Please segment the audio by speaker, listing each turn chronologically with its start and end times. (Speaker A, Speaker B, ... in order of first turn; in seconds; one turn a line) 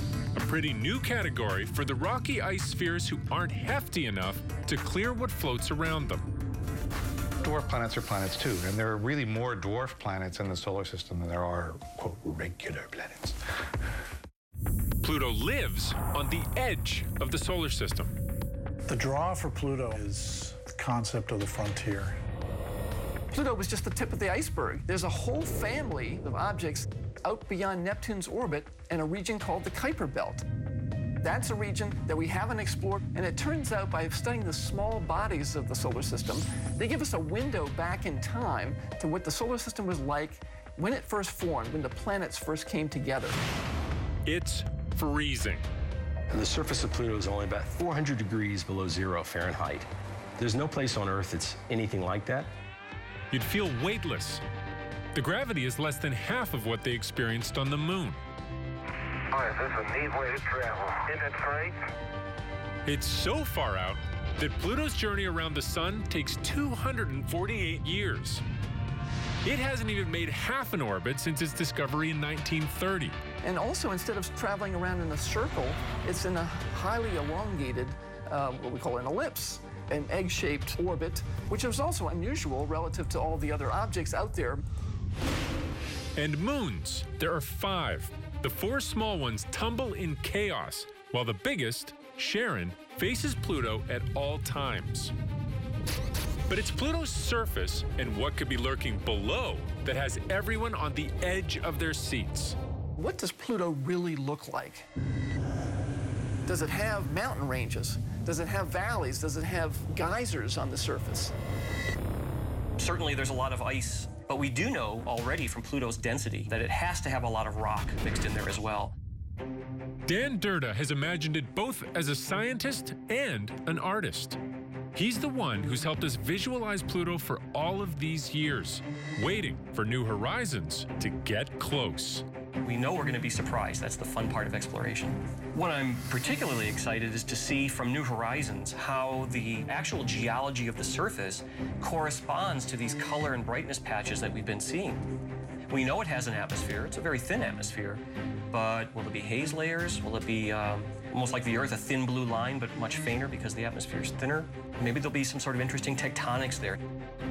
Speaker A: 0.3-6.2
Speaker B: 7.4-13.4
Speaker A: 15.0-18.1
Speaker C: 18.9-22.2
Speaker D: 23.3-30.4
Speaker D: 31.2-43.4
Speaker A: 44.3-45.6
Speaker E: 46.3-52.5
Speaker A: 53.3-54.4
Speaker A: 55.1-58.2
Speaker F: 59.4-61.7
Speaker A: 62.9-68.4
Speaker A: 69.4-73.2
Speaker D: 73.4-84.6
Speaker A: 86.2-95.1
Speaker A: 96.5-102.6
Speaker D: 103.0-104.9
Speaker D: 106.5-111.3
Speaker G: 112.8-119.0
Speaker A: 120.1-124.4
Speaker A: 125.0-132.2
Speaker G: 132.6-145.0
Speaker G: 145.7-156.8